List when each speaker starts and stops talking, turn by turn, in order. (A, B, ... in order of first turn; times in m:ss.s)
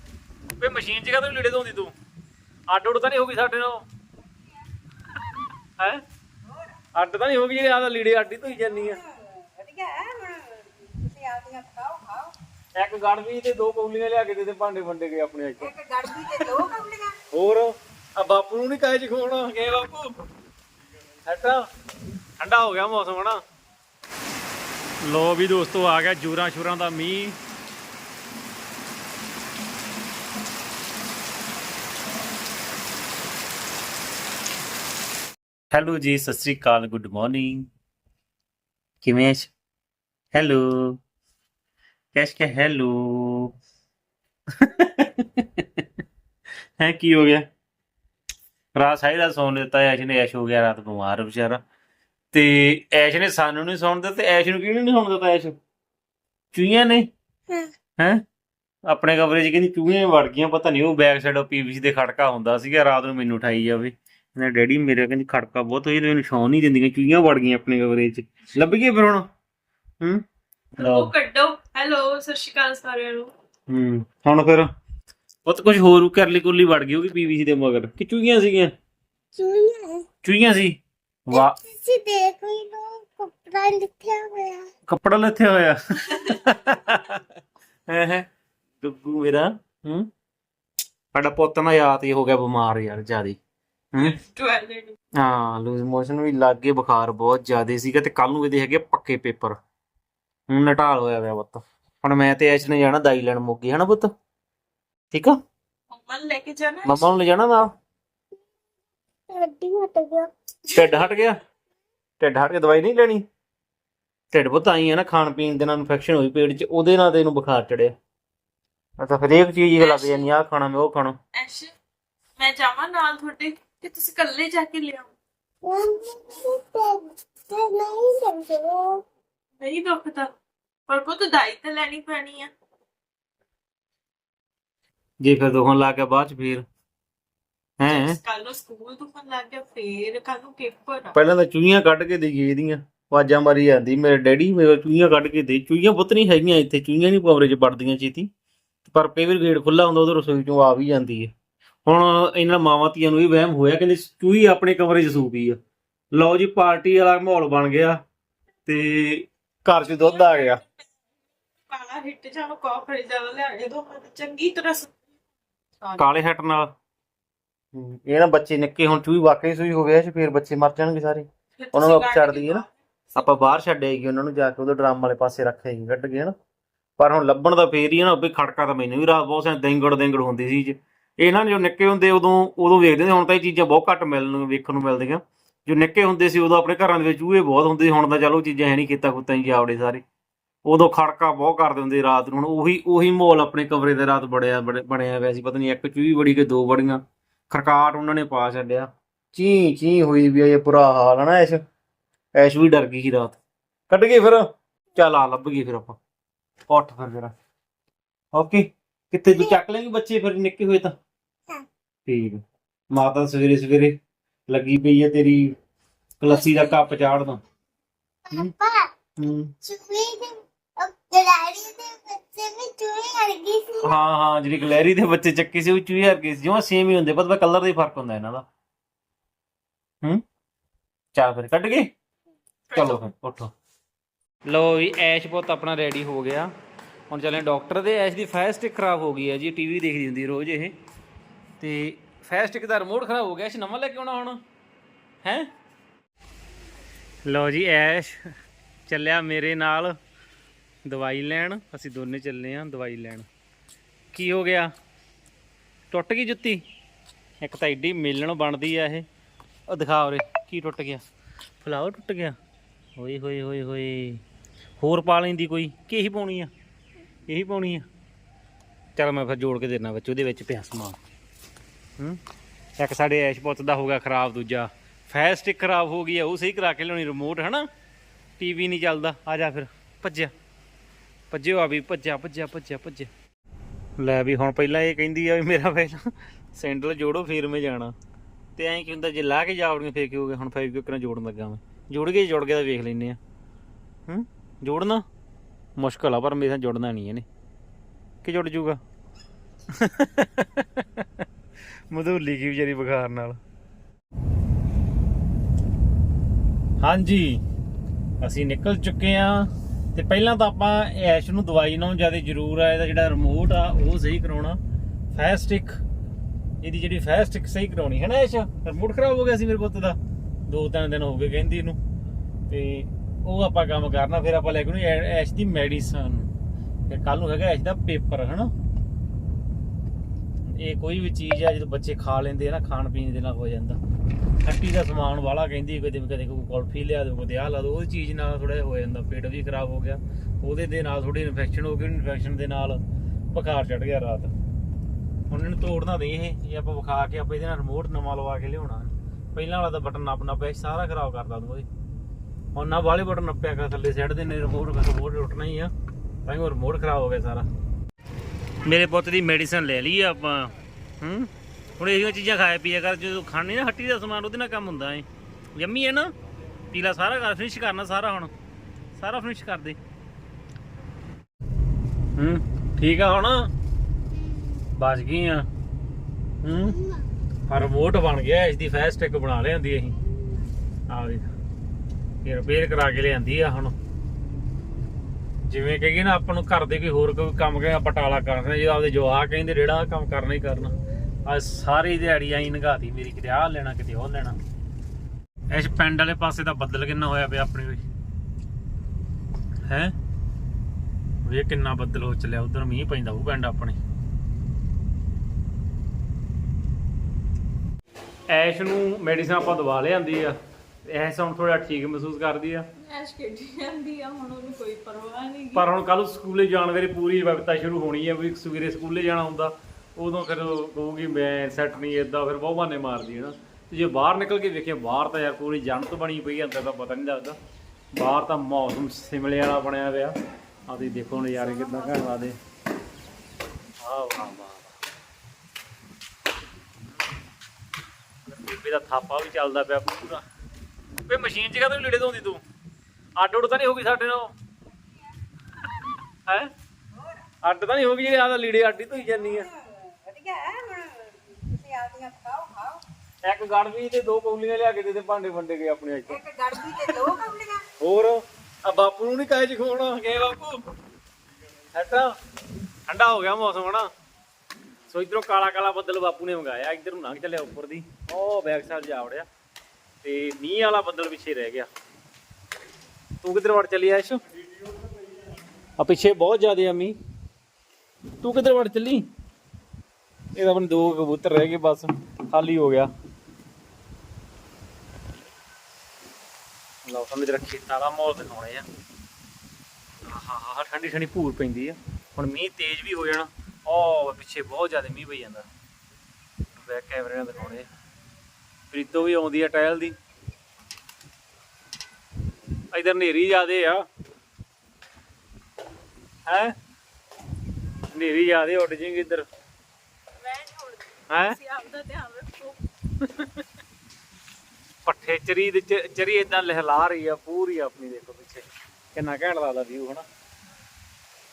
0:00.6-0:01.9 A
0:02.7-0:03.8 A
0:06.9-0:09.0 A
0:09.0-0:12.3 B
0:12.8-0:15.7 A
0:15.6-0:17.2 B
0:16.2-0:16.6 A
0:17.3-0:20.1 A
0:21.2-0:21.6 A
0:22.4-0:23.4 A
0:25.0-0:27.4 A
0:35.7-0:37.6 A
0:39.0-0:39.5 A
0:40.3-0:41.0 A
0:42.1-0:43.5 A
0:44.6-0:45.8 A
0:46.8-0:47.4 A
0:48.8-0:51.6 A
0:52.3-0:55.6 A
0:56.5-0:57.1 A
0:58.0-0:58.2 A
0:58.9-1:09.3 A
1:10.8-1:11.1 A
1:10.8-1:13.3 C
1:13.7-1:14.7 A
1:15.4-1:18.7 A
1:19.3-1:20.1 D
1:20.2-1:21.6 A
1:21.3-1:24.7 D
1:24.8-1:27.2 A
1:27.9-1:28.2 A
1:28.8-1:30.1 A
1:31.1-1:33.4 A
1:33.9-1:34.2 A
1:34.0-1:35.0 C
1:35.2-1:39.6 A
1:40.5-1:44.1 A
1:45.1-1:45.4 A
1:45.9-1:47.1 C
1:46.8-1:47.7 A
1:49.3-1:50.9 D
1:50.7-1:51.4 A
1:52.2-1:53.2 A
1:54.3-1:57.9 A
1:59.0-2:01.2 A
1:59.8-2:00.3 C
2:01.3-2:01.7 C
2:02.4-2:05.1 C
2:05.6-2:09.0 D
2:09.6-2:10.3 C
2:10.9-2:12.5 C
2:15.2-2:16.6 A
2:17.8-2:18.2 A
2:17.8-2:21.1 C
2:21.1-2:28.3 A
2:28.8-2:31.3 A
2:31.8-2:35.6 A
2:36.1-2:38.0 A
2:38.6-2:40.6 A
2:39.8-2:40.7 C
2:41.7-2:44.9 C
2:46.0-2:46.7 A
2:47.7-2:56.3 A
2:51.6-2:52.7 C
2:57.0-3:10.0 A
3:10.6-3:21.6 A
3:22.4-3:23.4 A
3:23.9-3:26.0 A
3:26.7-3:27.3 A
3:28.3-3:30.9 A
3:32.0-3:32.4 A
3:32.9-3:34.0 A
3:34.5-3:35.5 A
3:36.2-3:37.4 A
3:38.2-3:38.9 D
3:39.2-3:39.5 A
3:39.6-3:44.0 D
3:43.8-3:48.4 A
3:51.1-3:51.9 A
3:52.7-3:53.0 C
3:52.7-3:53.5 A
3:54.4-3:56.5 A
3:57.1-4:00.7 A
4:01.6-4:04.4 A
4:05.2-4:05.5 A
4:07.2-4:08.3 A
4:08.9-4:10.0 A
4:10.8-4:13.3 A
4:14.1-4:14.7 A
4:15.9-4:16.6 A
4:17.4-4:19.0 A
4:19.7-4:21.0 A
4:21.6-4:22.4 A
4:23.0-4:24.2 A
4:24.8-4:26.5 A
4:27.3-4:27.8 A
4:29.0-4:31.0 A
4:32.8-4:37.7 A
4:38.4-4:40.3 A
4:41.3-4:43.1 A
4:44.0-4:47.9 A
4:48.6-4:53.2 A
4:54.1-4:55.0 A
4:55.8-4:57.2 A
4:58.2-4:58.8 A
4:59.7-5:01.2 A
5:01.9-5:03.4 A
5:06.8-5:07.4 A
5:08.2-5:14.6 A
5:15.1-5:15.8 A
5:16.6-5:21.8 A
5:22.5-5:26.3 A
5:26.9-5:28.5 A
5:30.4-5:33.8 A
5:34.4-5:42.8 A
5:43.3-5:44.3 A
5:45.3-5:51.7 A
5:52.5-5:55.7 A
5:56.2-5:57.5 A
5:58.6-6:05.0 A
6:05.6-6:06.1 A
6:06.7-6:08.3 A
6:09.0-6:09.8 A
6:12.2-6:13.5 A
6:14.1-6:14.7 D
6:14.7-6:15.4 A
6:16.4-6:16.8 A
6:16.8-6:17.1 D
6:17.5-6:20.0 A
6:20.1-6:20.5 D
6:20.9-6:21.3 A
6:22.2-6:23.7 A
6:25.5-6:30.7 A
6:31.2-6:34.4 A
6:35.5-6:37.8 A
6:39.7-6:39.9 A
6:41.2-6:43.8 A
6:48.3-6:52.6 A
6:52.8-6:55.7 C
6:55.5-7:07.4 A
7:07.9-7:10.2 A
7:10.7-7:12.4 A
7:11.1-7:12.1 C
7:13.8-7:14.7 A
7:18.3-7:20.2 A
7:21.1-7:22.4 A
7:23.2-7:24.3 A
7:27.0-7:27.2 B
7:27.4-7:29.5 A
7:29.4-7:32.8 B
7:33.2-7:36.2 A
7:36.1-7:37.6 B
7:37.8-7:40.6 A
7:41.7-7:42.1 A
7:42.9-7:43.9 A
7:44.9-7:49.2 A
7:50.0-7:51.7 A
7:53.2-7:54.2 A
7:55.8-7:57.0 A
7:58.2-7:59.0 A
8:00.4-8:02.9 A
8:06.8-8:08.6 A
8:10.0-8:15.5 A
8:16.6-8:17.7 A
8:18.7-8:20.0 A
8:22.7-8:23.8 A
8:26.3-8:26.5 A
8:27.9-8:29.2 A
8:30.2-8:32.6 C
8:31.1-8:31.4 A
8:33.0-8:33.4 A
8:34.8-8:40.0 A